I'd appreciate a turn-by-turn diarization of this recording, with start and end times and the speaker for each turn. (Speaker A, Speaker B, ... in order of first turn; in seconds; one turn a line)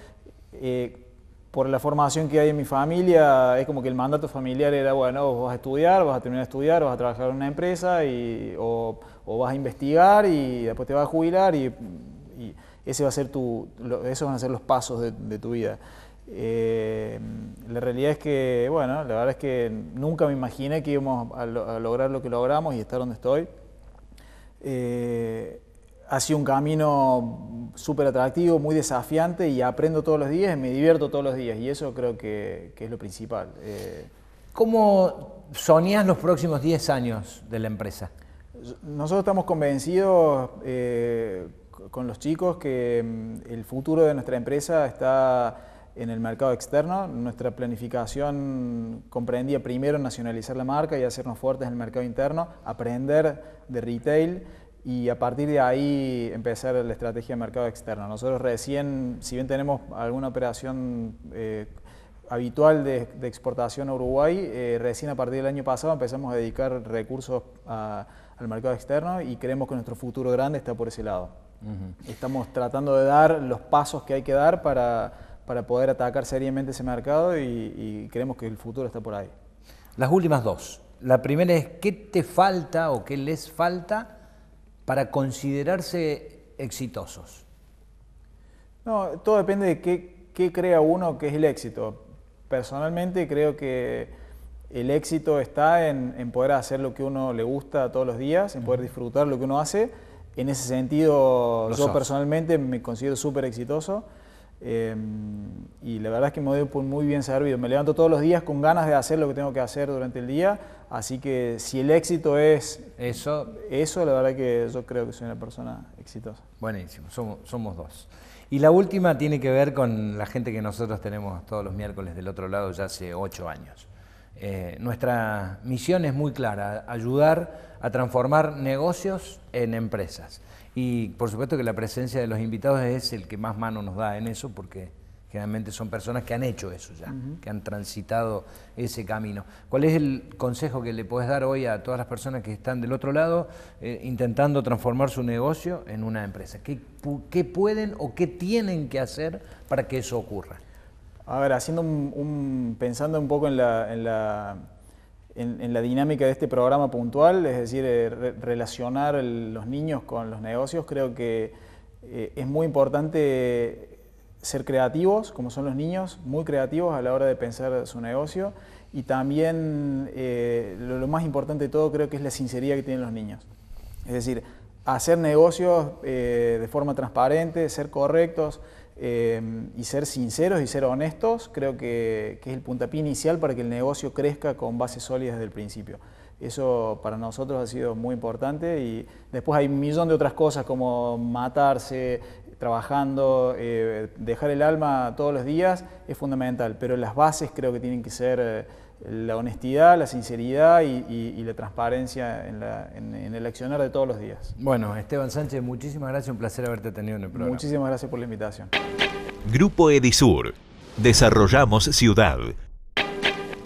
Speaker A: 0.5-23.5
Speaker A: 24.6-34.1
Speaker B: 34.5-38.1
Speaker A: 38.6-61.7
Speaker A: 62.3-71.3
Speaker B: 71.7-71.9
Speaker A: 72.0-79.3
Speaker B: 80.0-84.1
Speaker B: 84.9-87.5
Speaker A: 88.8-94.1
Speaker A: 94.7-104.1
Speaker B: 101.7-102.0
Speaker A: 104.6-116.4
Speaker B: 113.0-113.5
Speaker B: 116.6-150.6
Speaker A: 151.3-154.6
Speaker A: 155.3-173.5
Speaker A: 174.1-204.6
Speaker B: 204.6-207.6
Speaker A: 207.3-208.7
Speaker C: 209.4-212.6